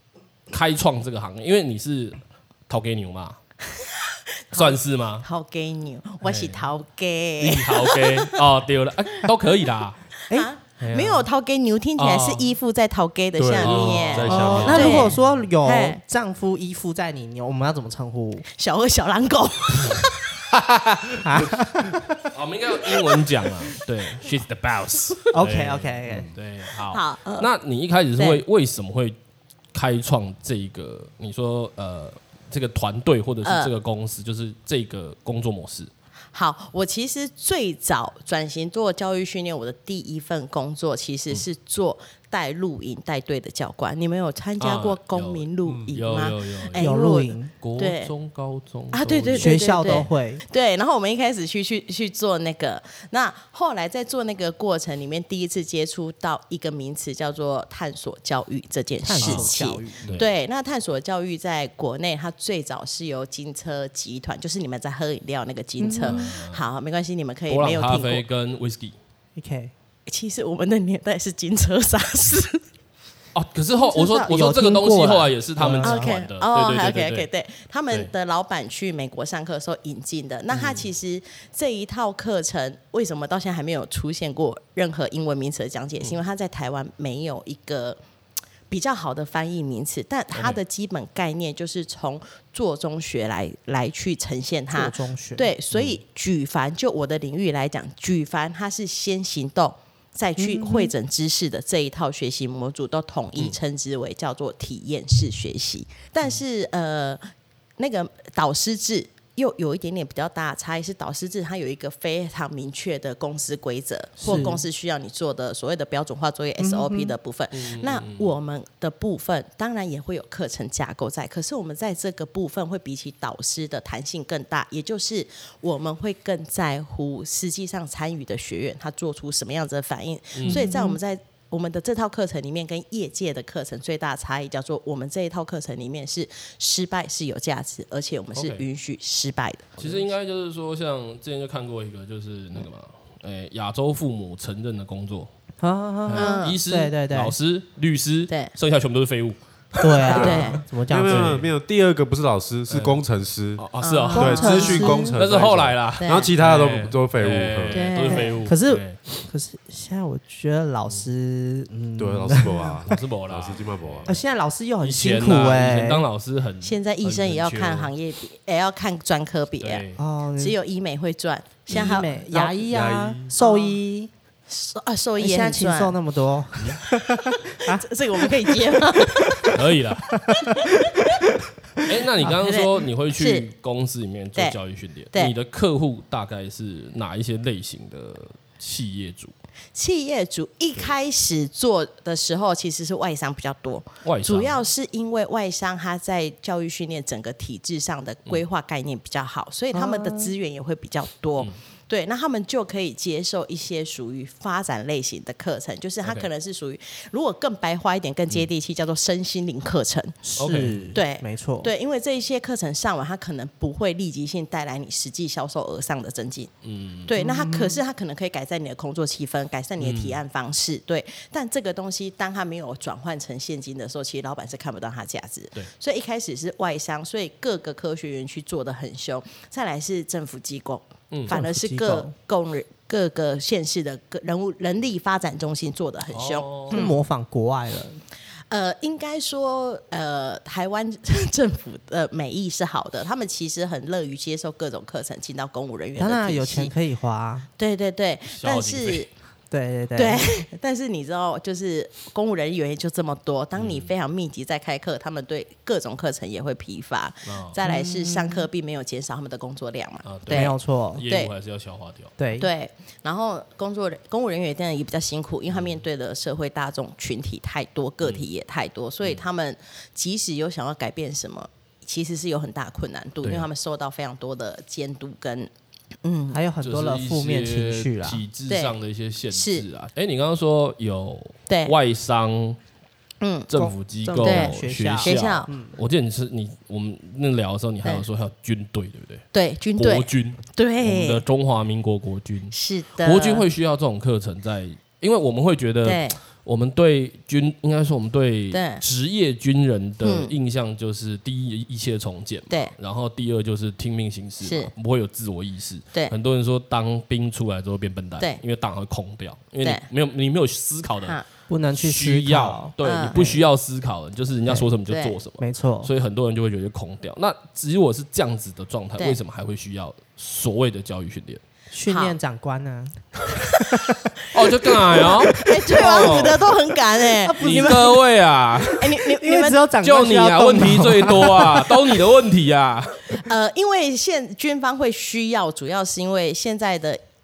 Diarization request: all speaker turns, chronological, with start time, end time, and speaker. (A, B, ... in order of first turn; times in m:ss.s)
0:00.5-0:03.4 A
0:03.8-0:08.4 B
0:04.5-0:05.3 A
0:06.2-0:06.6 A
0:07.4-0:10.0 A
0:10.3-0:16.0 B
0:10.8-0:11.2 A
0:12.0-0:12.5 A
0:13.4-0:15.1 C
0:13.6-0:15.2 A
0:14.3-0:18.5 D
0:18.6-0:20.4 B
0:21.1-0:22.2 D
0:22.3-0:29.2 A
0:25.3-0:26.3 D
0:26.9-0:27.5 B
0:28.2-0:28.4 B
0:29.7-0:35.9 A
0:33.4-0:33.7 B
0:36.3-0:48.1 B
0:44.6-0:46.9 A
0:45.7-0:45.9 C
0:46.8-0:47.5 D
0:47.6-0:50.0 A
0:48.9-1:08.2 B
0:49.4-0:50.4 D
0:59.0-1:00.1 D
0:59.2-1:00.3 A
1:05.8-1:06.2 D
1:06.0-1:06.6 A
1:07.5-1:09.0 A
1:09.4-1:09.7 D
1:10.1-1:12.6 B
1:13.3-1:17.3 A
1:13.8-1:16.1 D
1:15.8-1:28.0 B
1:20.5-1:20.9 A
1:28.7-1:47.2 B
1:30.3-1:30.6 A
1:34.7-1:35.5 D
1:35.7-1:36.0 A
1:40.4-1:40.9 D
1:47.8-2:20.1 B
1:54.2-1:54.5 A
1:54.2-1:54.7 D
1:56.6-1:57.2 D
1:57.5-1:58.3 A
2:10.3-2:10.7 A
2:10.5-2:11.0 D
2:18.3-2:18.6 A
2:19.8-2:25.3 A
2:25.6-2:27.3 D
2:26.1-2:31.5 A
2:26.1-2:26.6 B
2:29.8-2:31.4 D
2:30.2-2:30.6 B
2:30.9-2:33.6 C
2:32.7-2:33.0 A
2:33.6-2:39.0 A
2:33.8-2:35.0 B
2:34.1-2:35.2 D
2:34.2-2:38.2 C
2:36.0-2:36.3 B
2:37.7-2:38.4 B
2:38.2-2:42.9 D
2:42.0-2:44.1 C
2:42.9-2:44.2 A
2:44.1-2:46.0 D
2:44.8-2:47.9 A
2:46.6-2:49.8 B
2:49.6-2:50.0 A
2:50.0-2:50.6 D
2:50.4-2:52.6 B
2:51.7-2:54.1 D
2:52.6-2:53.3 C
2:53.4-2:53.8 B
2:54.5-2:56.0 B
2:55.2-2:59.6 D
2:57.3-2:59.6 B
2:59.5-3:00.1 A
3:00.1-3:02.4 D
3:00.4-3:01.0 B
3:01.8-3:09.3 A
3:02.4-3:03.5 B
3:09.8-3:30.2 B
3:14.0-3:14.6 A
3:19.7-3:20.3 D
3:30.2-3:31.7 D
3:30.4-3:30.9 A
3:30.9-3:36.5 B
3:36.6-3:37.1 A
3:37.0-3:57.0 B
3:37.2-3:37.8 D
3:39.8-3:40.2 A
3:51.3-3:52.1 D
3:56.1-3:56.8 A
3:56.7-3:58.0 D
3:58.5-4:06.7 B
4:06.0-4:07.5 D
4:07.6-4:09.1 B
4:08.3-4:09.1 A
4:09.5-4:10.4 D
4:10.0-4:20.6 B
4:13.6-4:13.9 A
4:17.2-4:17.6 A
4:17.6-4:18.5 D
4:20.0-4:22.1 A
4:20.3-4:21.0 D
4:21.1-4:21.3 B
4:22.2-4:22.5 D
4:22.4-4:35.5 B
4:25.5-4:25.8 A
4:33.2-4:33.5 A
4:36.0-4:36.4 B
4:36.3-4:38.2 D
4:36.6-4:42.6 A
4:38.5-4:38.7 B
4:39.3-4:39.7 B
4:41.5-4:41.7 B
4:43.2-4:43.5 B
4:43.5-4:49.3 A
4:43.6-4:45.8 D
4:44.2-4:45.5 B
4:49.3-4:51.2 B
4:49.8-5:21.4 A
4:52.5-4:53.4 B
4:55.8-4:56.2 B
4:58.5-4:58.8 B
5:00.0-5:00.3 B
5:02.5-5:02.8 B
5:04.4-5:04.7 B
5:11.5-5:12.7 D
5:12.8-5:13.4 B
5:14.9-5:15.2 B
5:15.4-5:15.9 D
5:21.7-5:24.1 D
5:21.9-5:22.2 B
5:24.3-5:26.4 A
5:24.7-5:28.0 D
5:25.0-5:27.8 B
5:27.4-5:29.0 A
5:28.8-5:29.6 B
5:29.0-5:32.0 D
5:29.8-5:33.3 A
5:33.1-5:37.0 B